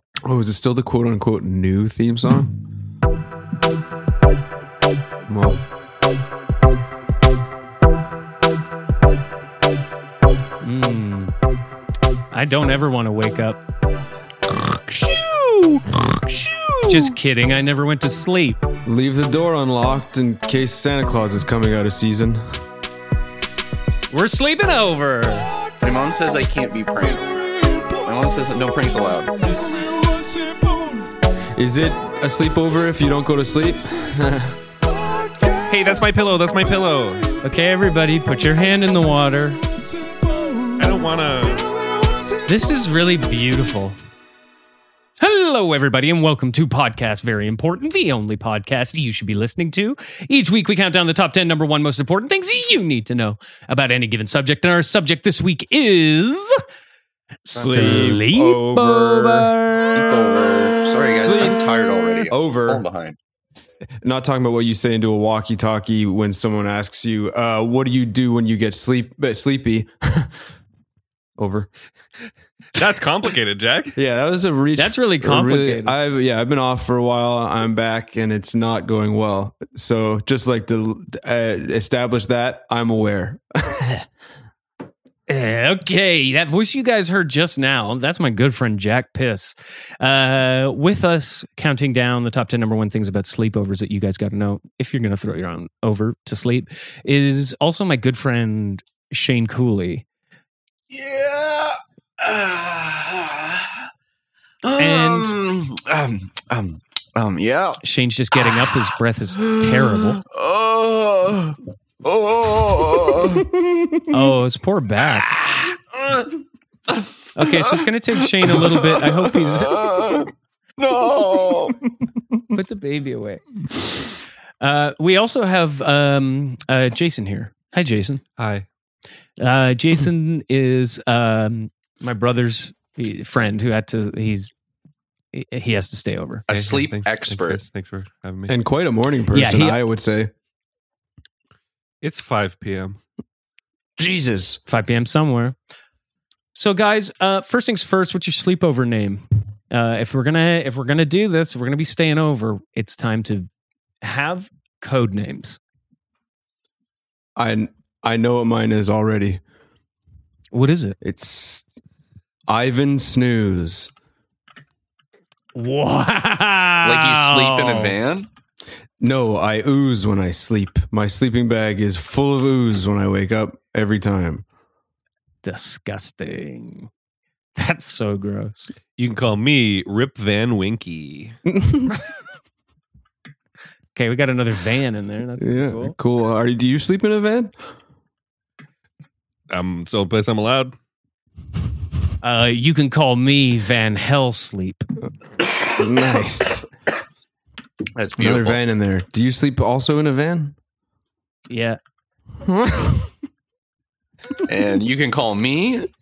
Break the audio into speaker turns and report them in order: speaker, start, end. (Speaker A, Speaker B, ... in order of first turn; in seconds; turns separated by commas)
Speaker A: 0.2-2.5, Speaker A: 5.3-5.6, Speaker B: 10.6-11.3, Speaker B: 12.3-13.6, Speaker A: 14.5-17.2, Speaker B: 16.8-18.6, Speaker A: 18.9-22.4, Speaker B: 24.1-25.5, Speaker C: 25.8-29.4, Speaker A: 29.5-34.6, Speaker A: 35.2-35.6, Speaker D: 35.7-37.3, Speaker B: 37.4-39.6, Speaker A: 40.2-40.8, Speaker D: 40.8-41.6, Speaker B: 42.5-44.0, Speaker B: 45.2-56.6, Speaker B: 57.5-60.1, Speaker A: 57.6-59.6, Speaker D: 57.7-58.1, Speaker C: 59.9-63.2, Speaker A: 61.1-62.8, Speaker A: 64.0-70.3, Speaker A: 71.4-71.7, Speaker D: 72.8-74.0, Speaker A: 74.0-84.1, Speaker B: 74.8-76.0, Speaker B: 85.3-100.0, Speaker C: 100.9-103.8, Speaker C: 104.6-107.8, Speaker B: 104.8-105.3, Speaker B: 107.8-110.2, Speaker C: 108.4-108.8, Speaker C: 109.4-113.5, Speaker A: 113.4-114.3, Speaker B: 114.1-115.3, Speaker C: 115.2-116.3, Speaker C: 117.0-117.8, Speaker B: 117.3-120.0, Speaker C: 118.4-121.8, Speaker B: 122.5-123.4, Speaker B: 124.6-128.2, Speaker D: 128.4-128.7, Speaker B: 129.4-134.5, Speaker B: 135.3-136.4, Speaker C: 136.5-137.6, Speaker D: 136.5-138.6, Speaker A: 138.5-140.3, Speaker B: 139.3-139.8, Speaker D: 142.0-143.0, Speaker A: 144.0-144.6, Speaker B: 144.7-145.6, Speaker B: 146.5-153.5, Speaker B: 154.0-155.6, Speaker A: 157.4-159.4, Speaker B: 160.5-161.0, Speaker A: 161.0-161.7, Speaker A: 162.5-163.9, Speaker B: 165.6-168.0, Speaker C: 166.8-168.3, Speaker A: 169.0-174.4, Speaker B: 175.4-176.9, Speaker B: 177.6-178.8, Speaker D: 179.0-181.4, Speaker A: 181.4-182.0, Speaker B: 183.9-186.0, Speaker A: 185.4-187.6, Speaker D: 189.5-190.8, Speaker B: 192.2-194.9, Speaker A: 195.7-196.7, Speaker C: 198.0-198.6, Speaker A: 198.2-200.6, Speaker B: 201.5-201.8, Speaker A: 202.4-203.1, Speaker C: 204.5-205.9